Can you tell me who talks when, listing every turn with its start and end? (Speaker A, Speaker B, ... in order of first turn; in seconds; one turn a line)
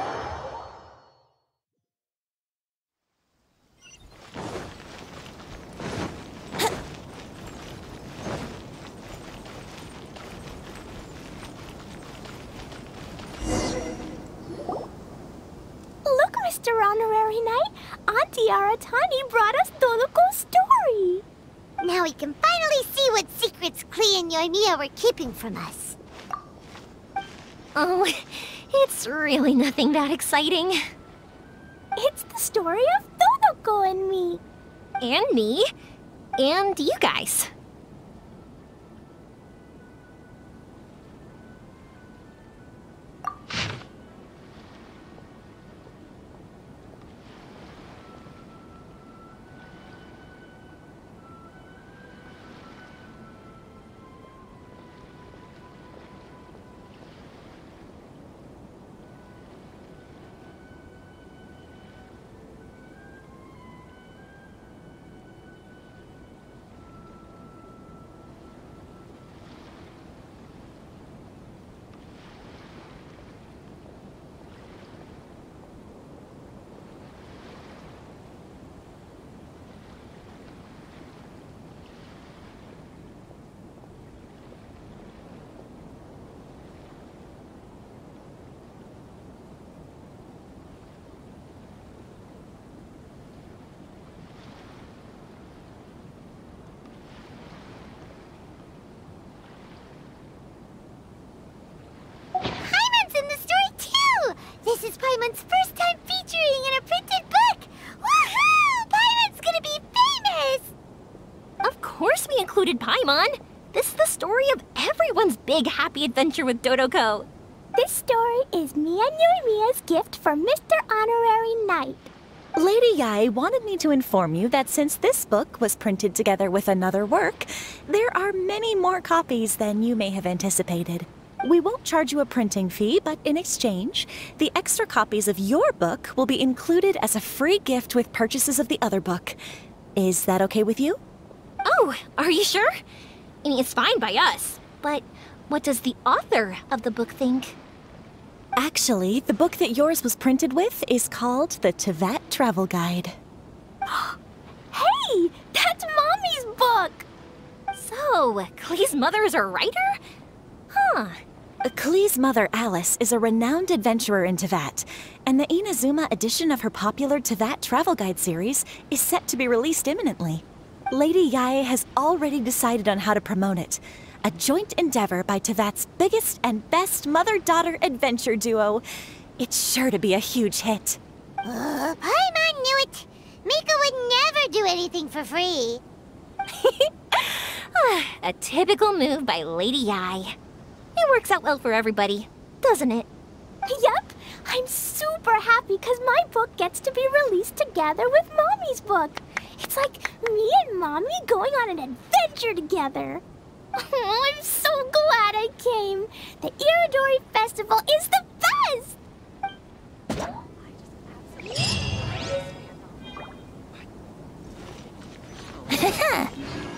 Speaker A: 16.1-21.2
Speaker B: 21.8-26.0
Speaker C: 27.8-30.8
Speaker A: 32.0-34.4
Speaker C: 35.0-35.7
Speaker C: 36.4-37.5
Speaker B: 102.6-110.7
Speaker C: 111.6-117.3
Speaker A: 117.8-122.1
Speaker D: 122.6-139.4
Speaker D: 140.0-141.0
Speaker C: 141.7-142.7
Speaker C: 143.4-147.6
Speaker D: 148.6-153.2
Speaker A: 153.9-154.2
Speaker A: 154.7-157.1
Speaker C: 157.7-160.0
Speaker C: 160.7-161.2
Speaker D: 161.7-178.8
Speaker D: 179.4-181.0
Speaker B: 181.4-185.8
Speaker C: 186.5-190.4
Speaker C: 191.0-193.1
Speaker A: 193.7-203.2
Speaker A: 203.8-209.0